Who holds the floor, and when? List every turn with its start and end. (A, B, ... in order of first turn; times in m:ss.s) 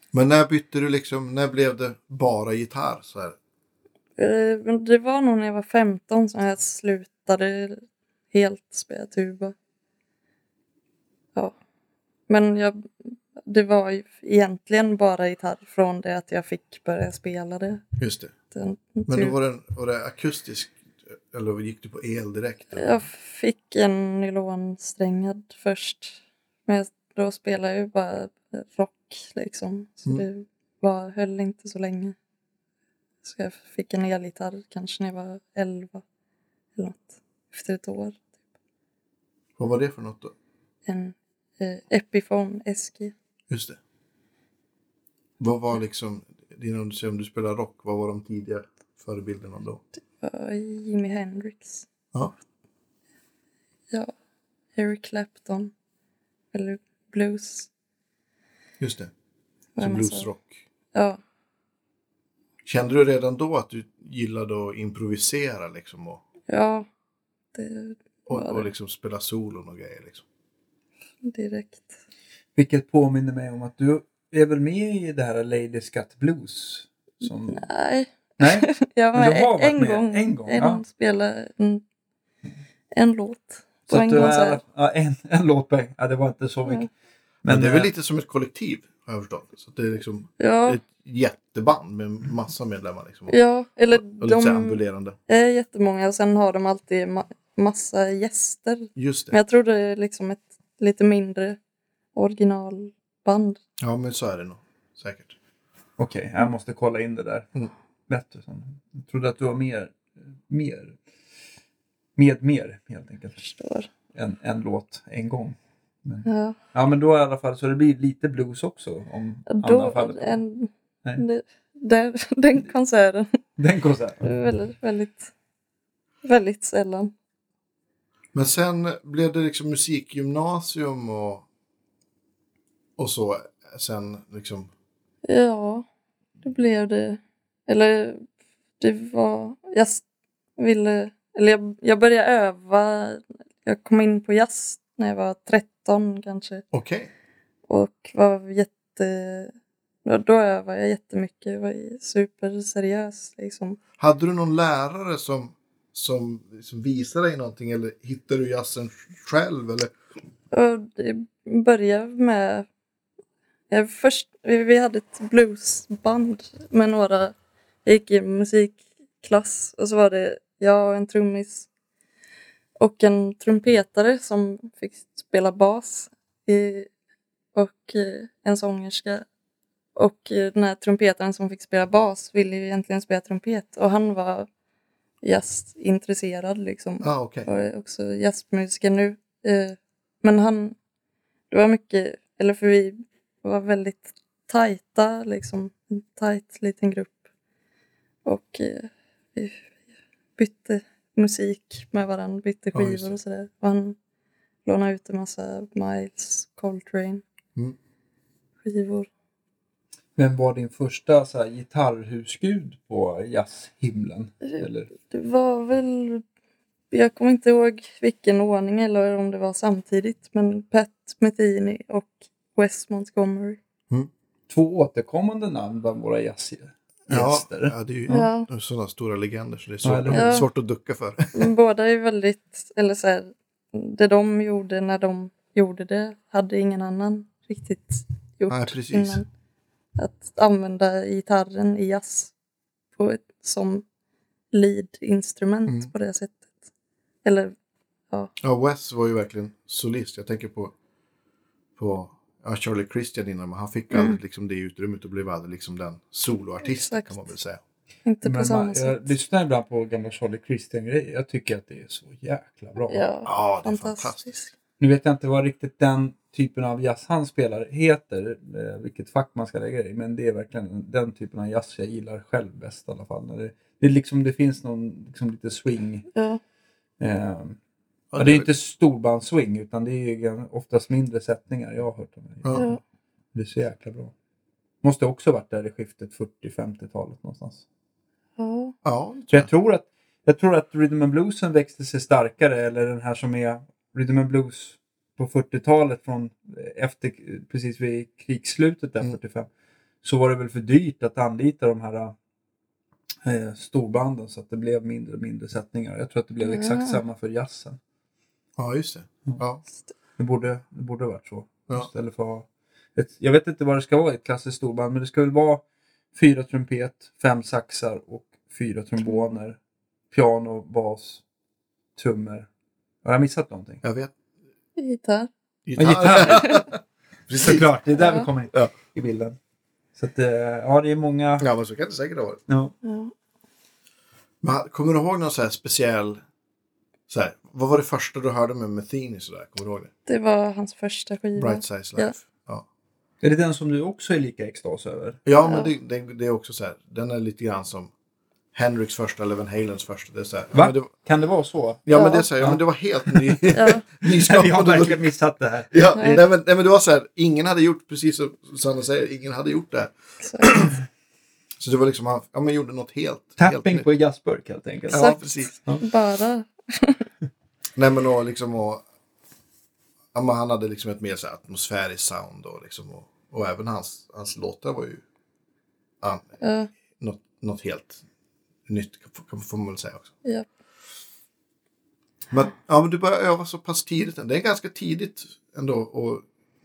0:00.1-0:03.4 A
0:04.2-0:07.8 B
0:08.3-0:09.5 B
0:12.3-0:17.8 B
0:18.0-0:18.3 A
0:18.5-0:19.4 B
0:19.1-0:23.0 A
0:22.7-0:32.2 B
0:33.2-0:36.0 B
0:36.8-0:38.2 B
0:39.6-0:40.3 A
0:40.9-0:43.1 B
0:43.5-0:43.8 A
0:45.4-0:49.8 A
0:50.2-0:51.9 B
0:54.8-0:55.7 B
0:56.5-0:57.7 B
0:58.8-0:59.1 A
0:59.8-1:00.3 B
0:59.8-1:00.6 A
1:00.9-1:01.2 B
1:02.6-1:06.2 A
1:06.5-1:06.9 B
1:07.5-1:08.7 B
1:08.3-1:10.2 A
1:11.2-1:11.9 B
1:12.6-1:17.7 C
1:17.2-1:21.8 B
1:18.4-1:20.8 C
1:22.9-1:24.6 B
1:23.9-1:26.9 C
1:27.4-1:27.9 C
1:27.5-1:33.4 A
1:30.4-1:30.8 B
1:33.3-1:41.6 B
1:34.0-1:35.2 A
1:39.0-1:39.4 A
1:42.2-1:43.6 B
1:43.8-1:45.4 A
1:46.0-1:47.5 C
1:48.1-1:51.0 C
1:52.2-1:53.4 C
1:53.4-1:53.9 B
1:54.1-2:00.4 C
1:56.3-1:56.6 B
1:59.5-2:03.4 B
2:03.6-2:04.3 C
2:04.2-2:05.3 B
2:06.2-2:07.1 B
2:08.3-2:11.4 A
2:13.0-2:14.7 A
2:15.3-2:15.9 B
2:16.4-2:18.3 B
2:18.8-2:20.0 B
2:20.6-2:26.6 B
2:26.7-2:27.1 A
2:27.7-2:29.5 B
2:30.0-2:33.8 B
2:34.0-2:39.9 A
2:40.5-2:42.7 B
2:43.7-2:51.7 B
2:52.8-2:56.9 B
2:57.6-2:59.2 B
3:00.0-3:04.5 B
3:05.2-3:10.8 B
3:07.0-3:07.5 A
3:11.5-3:17.2 B
3:18.3-3:19.7 B
3:20.4-3:24.0 B
3:22.7-3:23.1 A
3:24.6-3:27.2 B
3:28.6-3:29.1 B
3:30.2-3:34.9 C
3:34.4-3:36.2 B
3:36.9-3:43.6 B
3:44.5-3:48.3 C
3:47.1-3:51.5 A
3:48.1-3:48.5 B
3:49.8-3:50.4 C
3:50.1-3:50.5 B
3:51.3-3:59.3 B
3:58.5-3:59.2 A
4:00.0-4:02.3 B
4:03.0-4:03.8 B
4:04.5-4:06.5 B
4:07.2-4:07.5 B
4:08.4-4:10.7 A
4:11.8-4:17.6 A
4:13.9-4:14.2 B
4:16.6-4:17.2 B
4:18.1-4:19.1 B
4:18.2-4:23.1 C
4:22.9-4:24.5 B
4:23.3-4:24.5 A
4:24.8-4:36.1 C
4:36.1-4:36.4 B
4:37.0-4:37.6 C
4:38.1-4:38.5 A
4:38.2-4:42.7 C
4:42.5-4:42.8 B
4:43.3-4:44.1 C
4:44.8-4:47.6 C
4:48.4-4:48.8 B
4:48.8-4:49.5 A
4:49.3-4:59.5 C
5:00.0-5:02.1 C
5:03.2-5:07.8 C
5:06.4-5:07.0 B
5:08.6-5:09.6 A
5:10.2-5:15.6 C
5:16.1-5:19.6 C
5:19.1-5:19.3 B
5:20.1-5:21.2 C
5:22.0-5:22.5 C
5:23.0-5:23.8 C
5:23.8-5:24.1 A
5:24.8-5:25.3 B
5:25.7-5:27.7 A
5:25.8-5:26.6 C
5:26.3-5:26.6 B
5:27.4-5:29.4 C
5:28.0-5:28.3 B
5:30.0-5:31.5 C
5:31.4-5:32.4 A
5:32.5-5:32.8 C
5:32.8-5:33.1 B
5:34.4-5:36.2 A
5:37.1-5:39.9 A
5:40.1-5:42.2 B
5:41.4-5:42.6 A
5:43.2-5:45.2 C
5:45.3-5:47.9 A
5:45.4-5:45.7 B
5:48.5-5:50.9 A
5:50.6-5:53.5 C
5:51.9-5:55.0 A
5:51.9-5:52.3 B
5:53.5-5:53.8 B
5:54.0-5:56.1 C
5:55.7-6:00.8 A
5:56.0-5:56.2 B
6:00.2-6:00.6 B
6:01.6-6:03.9 A
6:03.4-6:05.8 C
6:04.9-6:05.5 A
6:04.9-6:05.2 B
6:05.8-6:07.1 B
6:07.8-6:08.8 A
6:10.1-6:15.0 A
6:16.0-6:16.4 A
6:16.4-6:16.7 B
6:17.0-6:18.0 A
6:18.7-6:20.1 A
6:22.3-6:26.3 A